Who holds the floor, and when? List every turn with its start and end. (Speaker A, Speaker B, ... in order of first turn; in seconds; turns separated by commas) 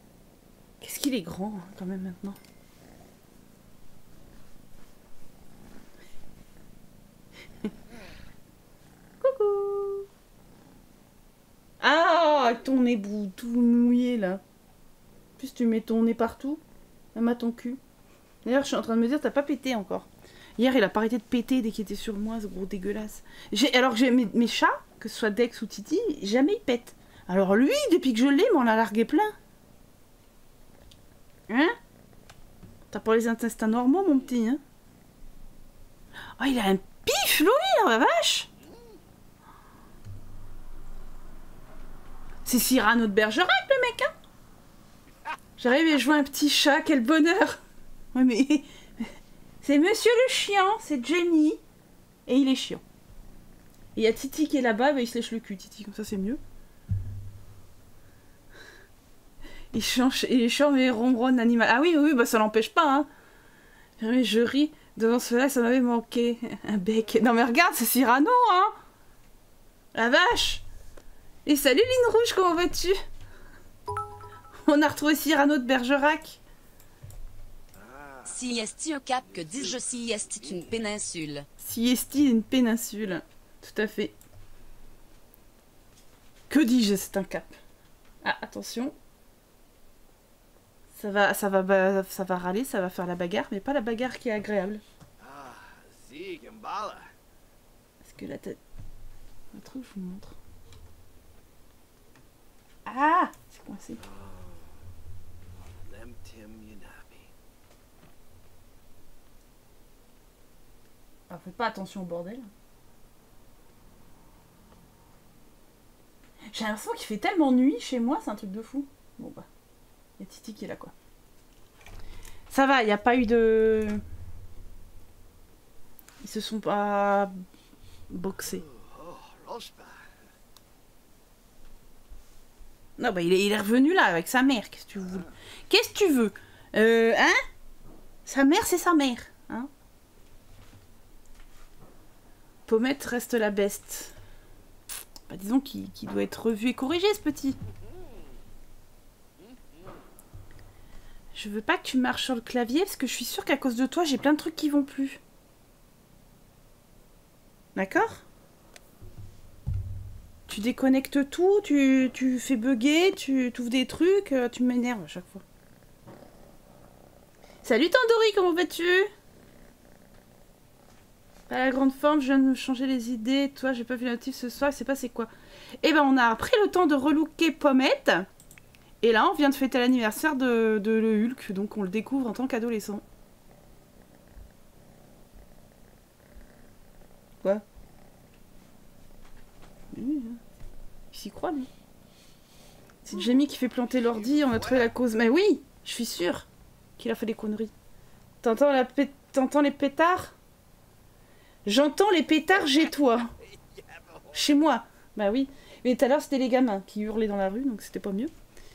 Speaker A: 0.8-2.4, Speaker A: 9.2-10.1, Speaker A: 11.8-14.4, Speaker A: 15.4-16.6, Speaker A: 17.1-17.8, Speaker A: 18.4-29.3, Speaker A: 31.5-31.8, Speaker A: 32.9-34.6, Speaker A: 36.4-38.5, Speaker A: 42.4-44.1, Speaker A: 45.6-47.6, Speaker A: 48.1-49.1, Speaker A: 49.6-51.6, Speaker A: 52.3-52.8, Speaker A: 54.0-56.4, Speaker A: 59.7-63.1, Speaker A: 64.0-68.7, Speaker A: 69.9-70.6, Speaker A: 71.5-73.0, Speaker A: 74.7-76.4, Speaker B: 77.8-78.3, Speaker C: 78.2-81.5, Speaker A: 81.6-84.2, Speaker A: 86.5-87.5, Speaker A: 88.2-88.9, Speaker A: 90.9-94.8, Speaker B: 95.2-97.1, Speaker A: 98.0-98.6, Speaker A: 99.5-100.4, Speaker A: 102.8-104.0, Speaker B: 104.1-104.5, Speaker B: 105.8-107.2, Speaker A: 111.3-112.5, Speaker A: 116.5-119.5, Speaker A: 120.2-120.9, Speaker A: 122.5-124.0, Speaker A: 126.2-127.3, Speaker A: 128.1-128.6, Speaker B: 128.7-130.0, Speaker A: 133.0-137.4, Speaker A: 138.2-139.7, Speaker A: 142.7-144.1, Speaker A: 145.3-147.6, Speaker A: 151.3-155.2, Speaker A: 157.8-158.2, Speaker A: 160.5-165.4, Speaker A: 167.6-169.1, Speaker A: 171.5-175.3, Speaker A: 175.8-178.3, Speaker A: 179.0-183.0, Speaker A: 189.9-190.4, Speaker A: 191.1-191.7, Speaker A: 193.0-196.5, Speaker A: 197.0-197.7, Speaker A: 198.4-200.3, Speaker A: 201.7-203.3, Speaker B: 203.7-204.3, Speaker A: 204.3-208.3